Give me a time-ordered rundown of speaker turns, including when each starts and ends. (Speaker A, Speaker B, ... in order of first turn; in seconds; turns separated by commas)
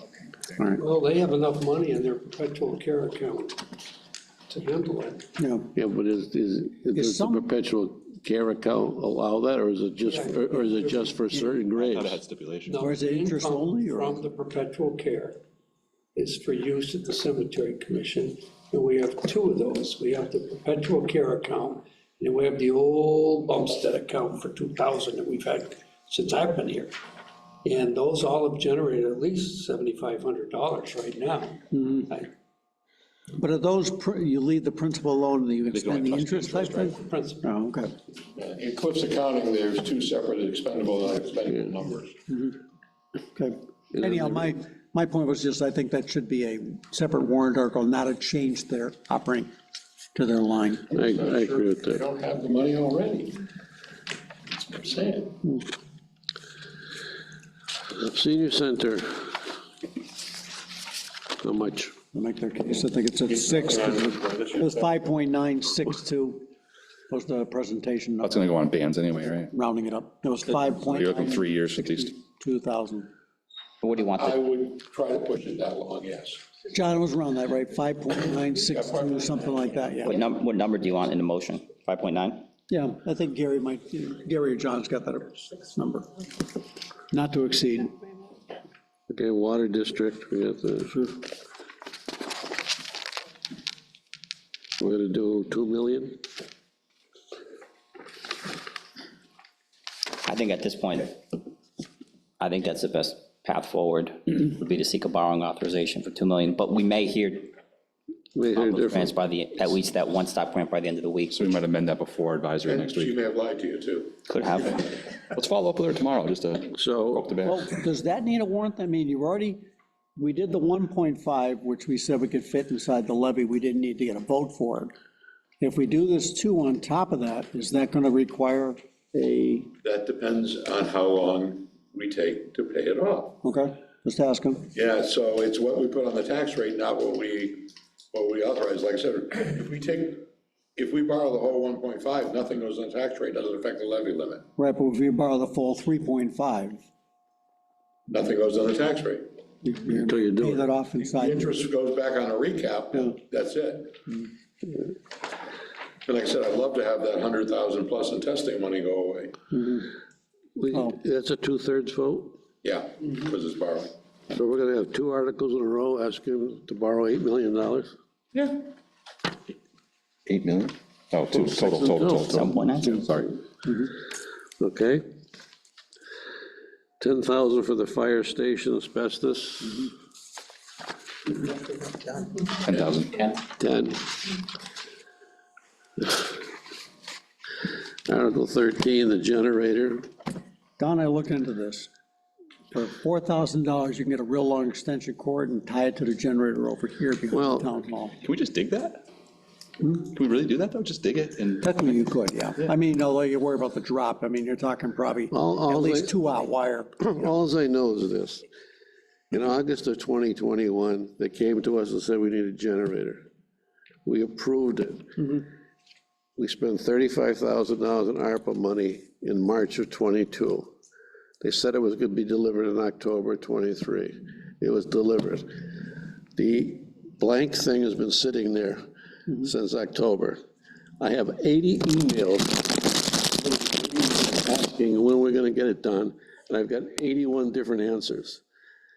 Speaker A: 0.6-0.8, Speaker B: 0.8-3.6, Speaker B: 4.5-5.2, Speaker A: 5.4-5.7, Speaker C: 5.7-12.2, Speaker A: 6.9-7.5, Speaker B: 10.0-11.3, Speaker D: 11.8-12.9, Speaker B: 12.7-15.4, Speaker A: 12.8-14.2, Speaker B: 16.2-26.9, Speaker B: 27.6-32.3, Speaker A: 31.7-32.1, Speaker A: 33.4-37.9, Speaker D: 35.7-37.1, Speaker B: 37.0-37.4, Speaker E: 38.4-42.2, Speaker A: 42.3-42.6, Speaker A: 43.4-49.5, Speaker C: 44.0-44.5, Speaker A: 50.1-50.9, Speaker C: 50.9-52.0, Speaker E: 51.0-53.4, Speaker E: 54.5-55.4, Speaker C: 58.0-59.4, Speaker C: 61.4-62.0, Speaker A: 62.1-66.5, Speaker E: 63.3-64.9, Speaker A: 67.1-68.5, Speaker D: 68.2-69.5, Speaker A: 69.5-73.1, Speaker D: 70.5-72.1, Speaker F: 73.8-74.4, Speaker E: 74.1-76.4, Speaker A: 76.7-80.2, Speaker E: 78.7-79.3, Speaker F: 80.0-82.5, Speaker A: 82.7-86.1, Speaker A: 87.1-88.0, Speaker C: 89.1-91.1, Speaker C: 94.8-96.2, Speaker F: 100.2-101.4, Speaker F: 102.4-107.5, Speaker C: 108.3-109.2, Speaker F: 108.6-111.5, Speaker D: 111.3-113.2, Speaker E: 112.7-114.2, Speaker F: 114.3-114.8, Speaker D: 115.3-117.6, Speaker C: 116.7-117.3, Speaker A: 117.5-119.6, Speaker A: 120.2-124.9, Speaker A: 125.6-129.7, Speaker E: 129.8-133.4, Speaker A: 133.4-134.7, Speaker E: 134.7-140.2, Speaker E: 140.8-144.4, Speaker A: 144.6-146.8, Speaker E: 148.1-149.3, Speaker A: 149.6-151.6, Speaker C: 149.9-150.6, Speaker E: 151.0-154.0, Speaker E: 156.1-159.4, Speaker A: 159.5-159.9, Speaker C: 160.6-162.4, Speaker E: 162.6-163.9, Speaker C: 164.3-167.9, Speaker D: 170.3-173.3, Speaker C: 171.3-173.1, Speaker F: 172.3-173.0, Speaker C: 174.6-175.1, Speaker C: 177.0-179.9, Speaker D: 182.7-183.4, Speaker C: 183.6-184.2, Speaker C: 186.0-186.3, Speaker C: 188.1-190.1, Speaker A: 190.8-191.9, Speaker A: 192.7-198.2, Speaker C: 197.3-197.7, Speaker D: 198.2-199.0, Speaker D: 199.9-202.0, Speaker A: 201.6-207.0, Speaker C: 205.3-206.1, Speaker C: 207.0-208.5, Speaker C: 209.3-213.2, Speaker C: 214.1-215.4, Speaker C: 216.4-220.7, Speaker C: 221.4-225.7, Speaker C: 226.4-230.4, Speaker C: 231.0-238.4